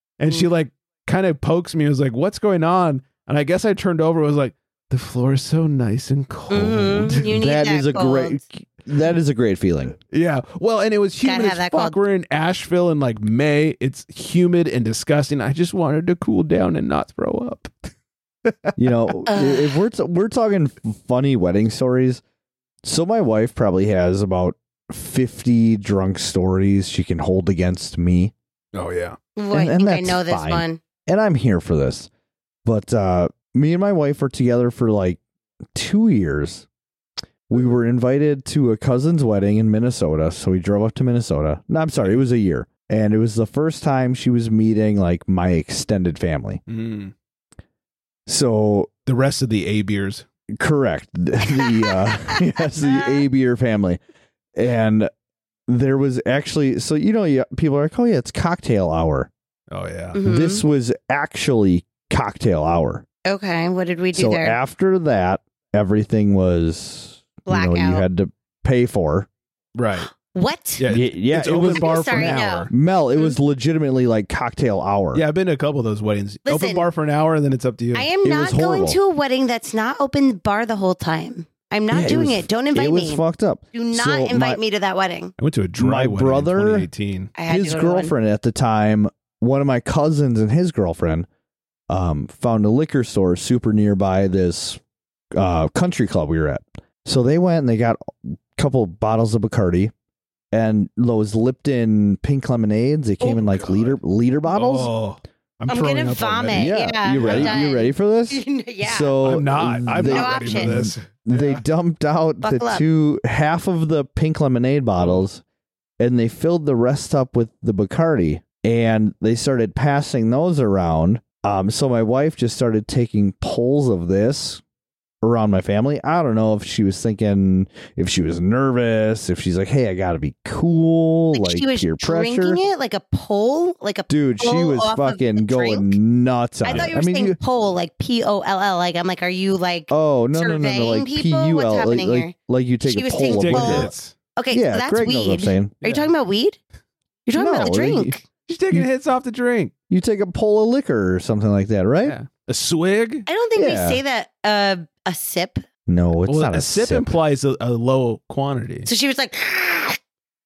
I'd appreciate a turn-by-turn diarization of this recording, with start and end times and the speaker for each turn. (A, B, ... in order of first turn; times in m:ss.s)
0:00.2-0:07.3 A
0:06.5-0:08.4 B
0:07.2-0:10.0 C
0:10.1-0:17.9 A
0:11.2-0:12.0 B
0:18.5-0:18.7 A
0:18.8-0:22.2 C
0:19.3-0:19.8 B
0:22.8-0:28.3 C
0:28.7-0:29.2 A
0:29.4-0:30.8 B
0:29.5-0:32.1 C
0:32.6-0:35.2 C
0:35.7-0:36.7 C
0:37.5-0:46.6 C
0:46.7-0:47.1 A
0:48.3-0:48.9 C
0:49.1-0:50.2 A
0:50.6-0:54.0 C
0:51.6-0:53.2 B
0:54.6-0:55.1 C
0:55.7-0:59.3 C
0:59.7-1:00.2 A
1:00.1-1:00.6 B
1:00.2-1:03.0 C
1:03.2-1:04.6 B
1:04.1-1:09.3 C
1:07.5-1:08.0 B
1:09.8-1:10.1 A
1:10.1-1:10.8 B
1:10.8-1:12.7 A
1:10.9-1:15.2 C
1:11.6-1:13.4 B
1:15.1-1:18.1 A
1:16.5-1:16.9 B
1:17.9-1:23.2 B
1:18.2-1:19.0 C
1:21.9-1:24.6 C
1:23.7-1:25.3 B
1:25.4-1:27.3 A
1:25.8-1:26.9 C
1:27.4-1:28.1 B
1:27.5-1:31.3 C
1:31.9-1:34.8 C
1:35.3-1:39.9 C
1:40.5-1:44.9 C
1:43.2-1:44.0 A
1:44.5-1:47.6 A
1:45.7-1:49.2 B
1:46.5-1:55.4 C
1:49.2-1:51.6 A
1:50.0-1:50.9 B
1:52.4-1:52.8 B
1:55.0-1:55.3 A
1:56.0-2:04.6 C
2:05.2-2:12.6 C
2:11.3-2:16.0 B
2:14.1-2:17.4 C
2:16.6-2:22.3 B
2:19.9-2:23.9 C
2:22.8-2:26.6 B
2:23.3-2:24.2 A
2:24.5-2:25.8 C
2:25.8-2:26.1 A
2:27.3-2:28.2 B
2:27.4-2:28.2 C
2:28.5-2:29.7 A
2:29.9-2:32.2 C
2:32.0-2:33.3 A
2:33.3-2:35.6 B
2:33.6-2:34.0 C
2:35.9-2:37.1 C
2:36.3-2:38.9 A
2:38.9-2:40.0 B